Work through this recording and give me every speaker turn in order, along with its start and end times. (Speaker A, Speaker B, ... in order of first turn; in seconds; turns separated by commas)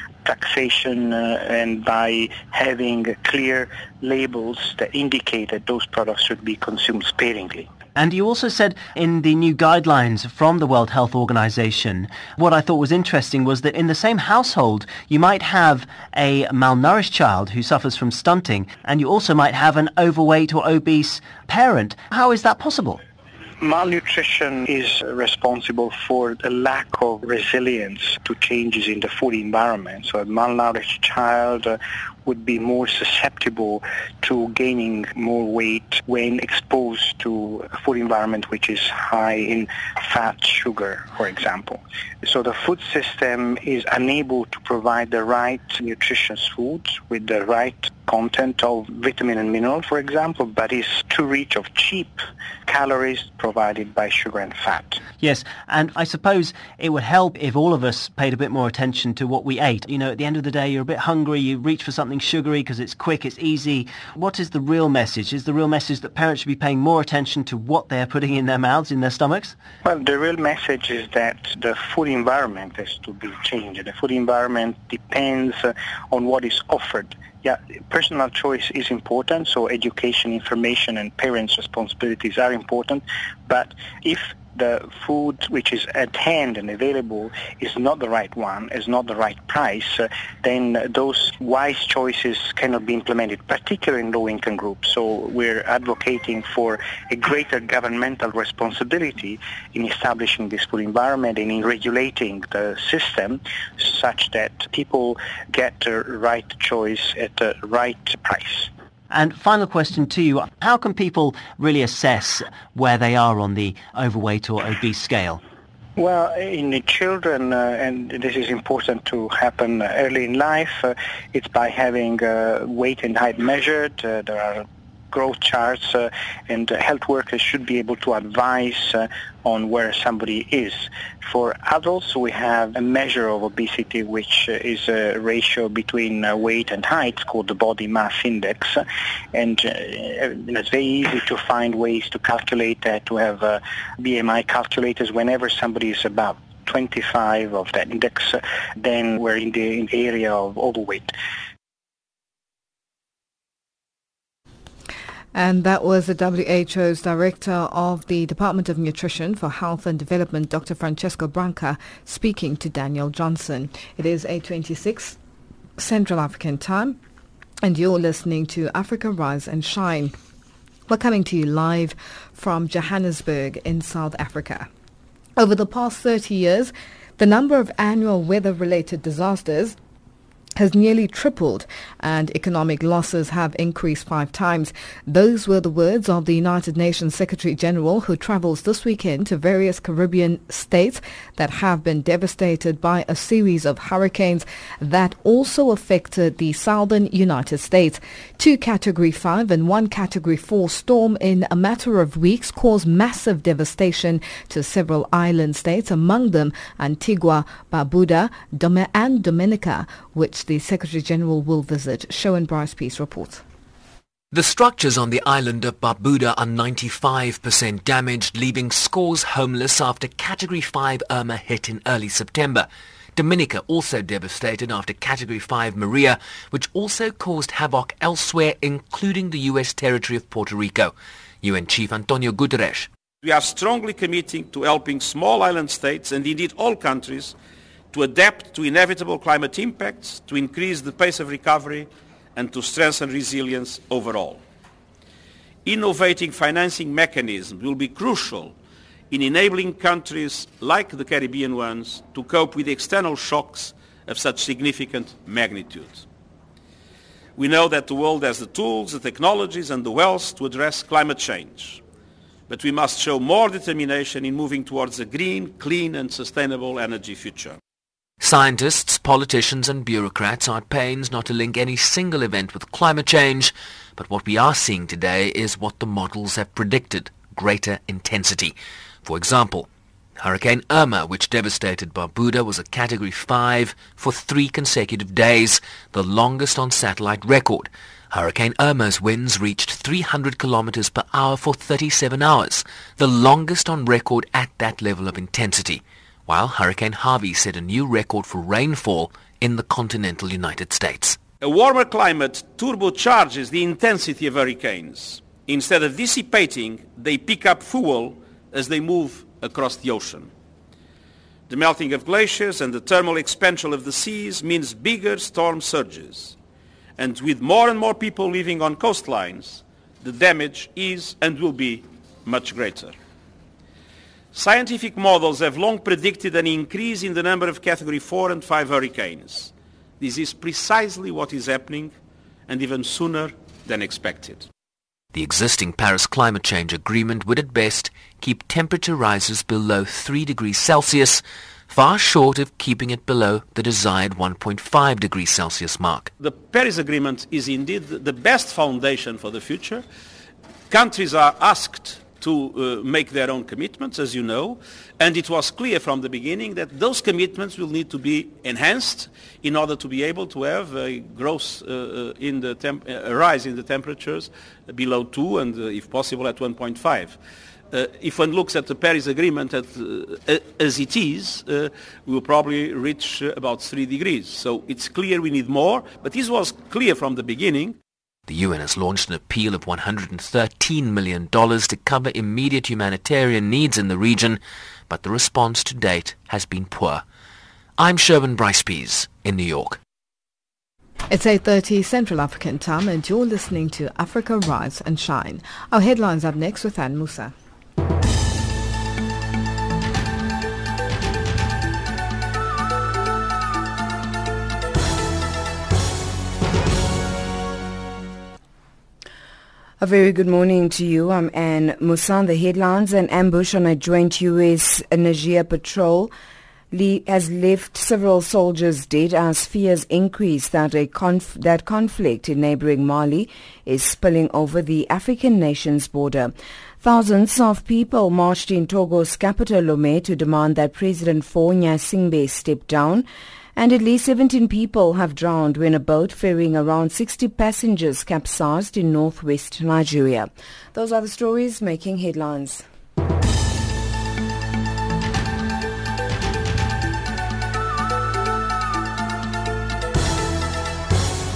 Speaker A: 0.2-7.7, Speaker B: 8.0-23.0, Speaker A: 23.6-55.0, Speaker B: 55.2-69.5, Speaker A: 69.8-108.7, Speaker B: 109.1-115.4, Speaker A: 116.0-138.8, Speaker A: 139.3-151.1, Speaker C: 155.3-165.2, Speaker C: 165.8-167.0, Speaker C: 167.6-170.1, Speaker C: 170.9-174.7, Speaker C: 175.4-179.8, Speaker C: 180.6-213.4, Speaker D: 214.3-232.9, Speaker E: 233.2-237.3, Speaker E: 237.9-244.4, Speaker E: 245.6-248.6, Speaker E: 249.1-256.1, Speaker E: 257.4-261.8, Speaker E: 262.5-267.6, Speaker D: 268.2-279.7, Speaker D: 280.2-301.2, Speaker E: 301.4-310.3, Speaker E: 311.5-316.4, Speaker E: 317.0-322.9, Speaker E: 324.3-331.9, Speaker E: 332.5-334.5, Speaker D: 335.1-346.1, Speaker E: 346.2-349.8, Speaker E: 350.7-367.2, Speaker E: 367.7-377.8, Speaker D: 378.3-387.0, Speaker D: 387.8-389.8, Speaker C: 391.1-397.3, Speaker F: 409.8-416.1, Speaker F: 416.7-442.6